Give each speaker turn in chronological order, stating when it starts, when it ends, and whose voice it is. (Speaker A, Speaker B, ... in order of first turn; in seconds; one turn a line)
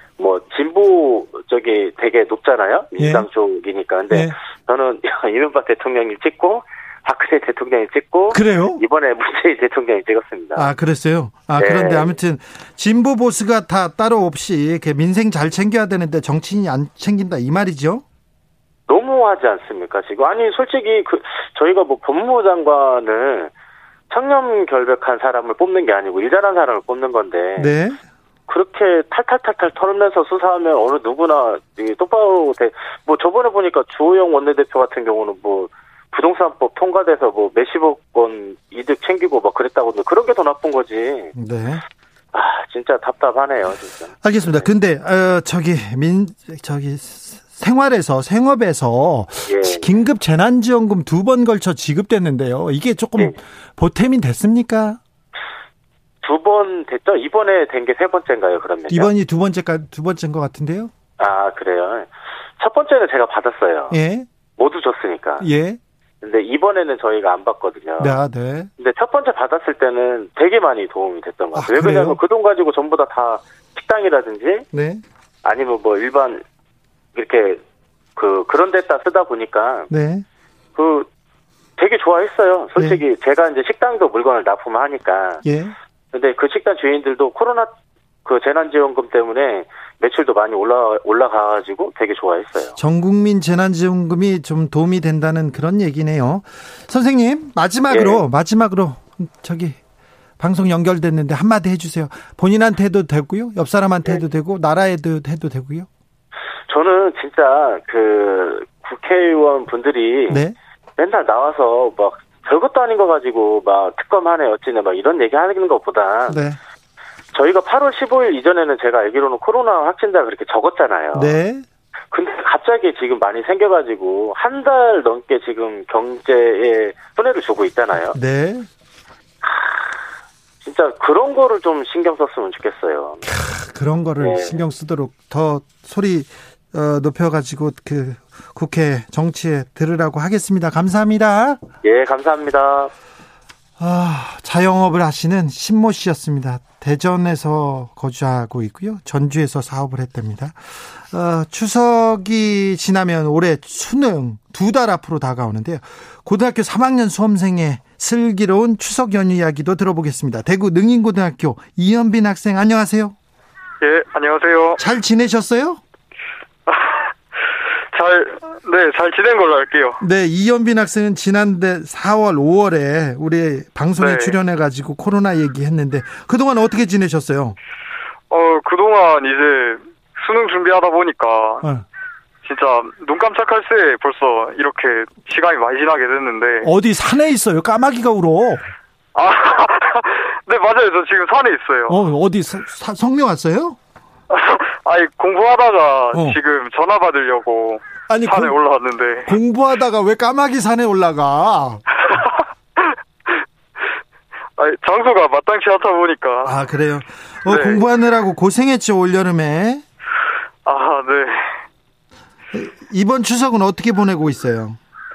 Speaker A: 0.2-10.7
Speaker B: 3.0-3.3
Speaker B: 4.1-4.4
Speaker B: 8.3-8.8
Speaker B: 10.6-18.0
Speaker A: 11.6-12.1
Speaker A: 18.9-23.5
Speaker A: 24.1-27.7
Speaker B: 27.6-28.0
Speaker A: 28.5-41.3
Speaker B: 41.4-41.8
Speaker A: 42.3-44.7
Speaker B: 44.2-55.0
Speaker A: 49.5-50.0
Speaker A: 56.2-59.1
Speaker B: 58.9-60.9
Speaker A: 61.2-64.0
Speaker B: 63.9-64.3
Speaker A: 64.6-65.5
Speaker B: 65.4-65.8
Speaker A: 66.2-68.2
Speaker B: 68.0-68.7
Speaker A: 68.8-74.7
Speaker B: 71.5-72.2
Speaker B: 74.7-75.0
Speaker A: 75.4-76.4
Speaker A: 77.2-77.6
Speaker A: 78.2-79.9
Speaker B: 79.9-80.2
Speaker A: 80.8-81.1
Speaker A: 81.8-85.4
Speaker B: 82.8-83.0
Speaker B: 85.4-85.8
Speaker A: 86.1-87.7
Speaker A: 88.2-92.8
Speaker B: 92.8-99.8
Speaker A: 97.9-98.2
Speaker B: 100.4-105.9
Speaker A: 106.7-110.4
Speaker B: 110.3-110.5
Speaker A: 111.0-116.4
Speaker B: 116.3-116.6
Speaker A: 117.3-121.3
Speaker B: 121.1-121.7
Speaker A: 122.1-128.2
Speaker B: 128.1-128.7
Speaker A: 129.4-130.0
Speaker A: 130.6-133.2
Speaker B: 133.3-141.6
Speaker A: 134.2-134.6
Speaker A: 141.8-142.9
Speaker B: 143.8-163.2
Speaker C: 163.8-164.8
Speaker B: 164.8-165.8
Speaker C: 166.7-167.1
Speaker C: 167.9-170.0
Speaker B: 170.0-177.6
Speaker C: 174.0-174.4
Speaker C: 178.3-181.7
Speaker C: 182.4-186.7
Speaker B: 186.6-188.7
Speaker C: 189.2-192.0
Speaker B: 191.9-193.8
Speaker C: 194.3-199.3
Speaker B: 196.1-196.4
Speaker B: 198.1-198.6
Speaker B: 199.3-201.8
Speaker C: 202.1-203.4
Speaker C: 204.6-206.6
Speaker B: 206.4-209.8
Speaker C: 207.5-207.8
Speaker C: 210.7-211.6
Speaker B: 212.5-214.8